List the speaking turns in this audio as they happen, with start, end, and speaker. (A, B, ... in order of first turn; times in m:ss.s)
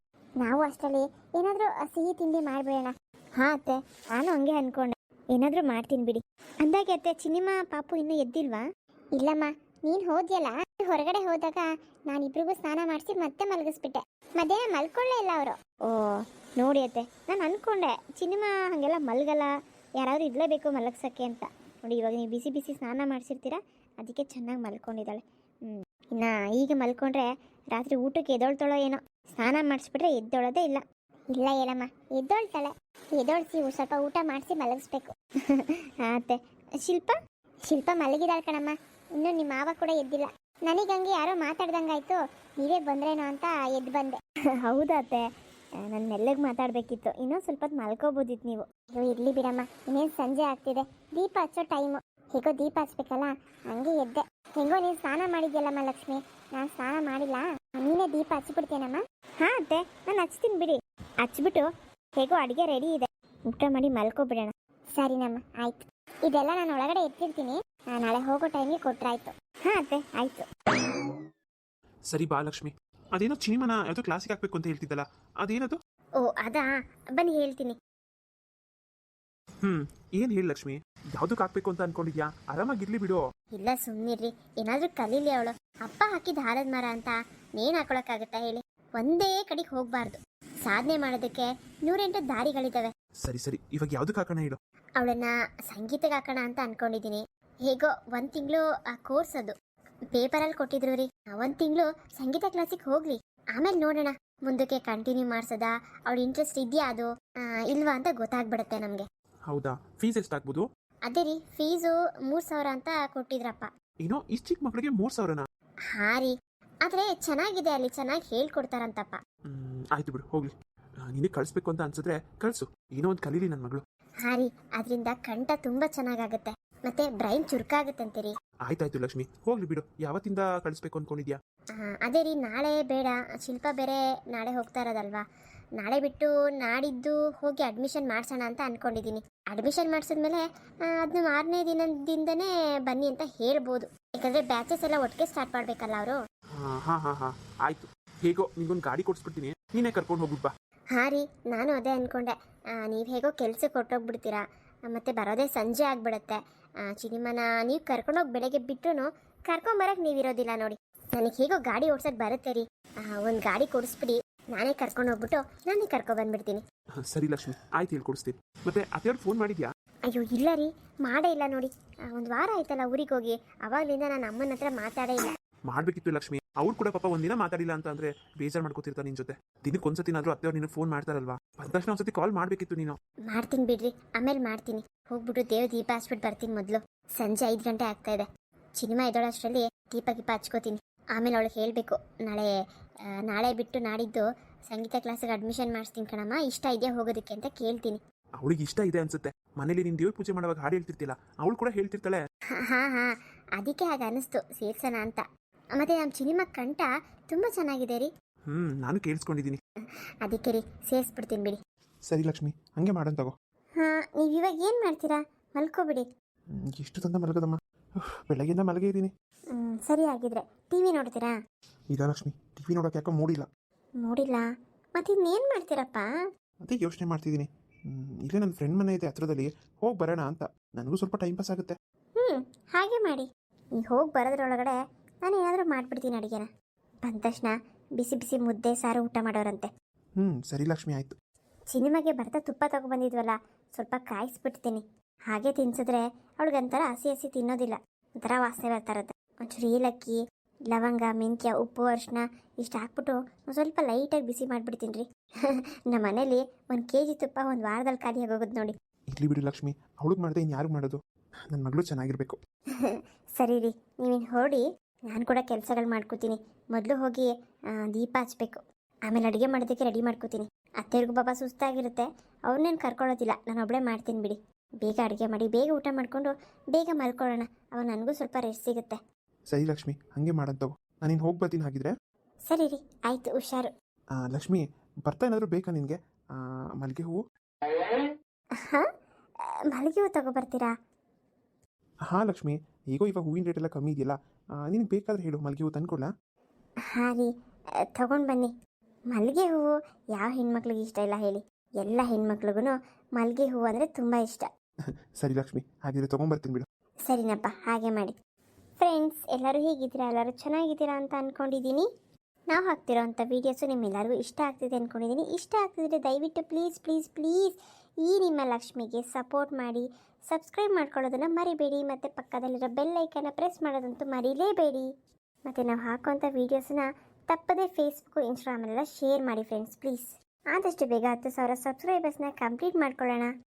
0:00.4-0:08.6 A
0:09.2-0:37.1 A
0:37.7-1:01.7 A
1:02.2-1:10.5 A
1:12.1-1:15.8 B
1:16.2-1:17.8 A
1:19.6-1:23.2 B
1:23.5-1:32.9 A
1:33.2-1:34.6 B
1:35.0-1:39.5 A
1:40.1-1:49.0 A
1:49.5-1:50.6 B
1:51.0-1:53.7 A
1:54.0-1:55.4 B
1:55.9-1:56.3 A
1:56.8-1:59.2 A
1:59.5-2:00.5 B
2:01.1-2:03.8 B
2:04.2-2:08.3 A
2:08.6-2:11.4 B
2:11.7-2:15.2 A
2:15.8-2:26.2 A
2:26.6-2:30.5 B
2:30.9-2:46.6 A
2:47.0-2:49.7 B
2:50.1-2:55.3 A
2:55.7-3:03.0 B
3:03.3-3:08.2 A
3:08.8-3:12.5 A
3:13.2-3:18.0 A
3:18.4-3:22.2 B
3:22.6-3:25.2 A
3:25.8-3:28.1 A
3:28.5-3:29.6 B
3:30.2-3:31.6 A
3:32.1-3:33.3 B
3:33.8-3:36.0 A
3:36.7-3:37.6 B
3:38.3-3:39.1 B
3:39.5-3:41.3 A
3:41.9-3:43.5 B
3:44.0-3:44.4 A
3:45.0-3:46.1 A
3:46.6-3:51.7 B
3:52.2-3:56.5 A
3:57.0-3:59.7 A
4:00.2-4:01.1 B
4:01.7-4:10.2 A
4:10.7-4:18.7 A
4:19.1-4:21.0 B
4:21.5-4:22.4 B
4:22.8-4:39.0 A
4:39.5-4:41.9 B
4:42.5-4:43.7 A
4:44.3-4:47.2 B
4:48.6-4:48.9 A
4:49.7-4:50.7 A
4:52.1-4:54.1 B
4:54.7-4:56.1 B
4:56.9-4:57.3 A
4:57.9-4:58.5 A
4:59.1-5:04.5 A
5:05.2-5:06.6 B
5:07.1-5:08.1 A
5:08.8-5:11.8 A
5:12.5-5:24.9 A
5:25.5-5:33.3 A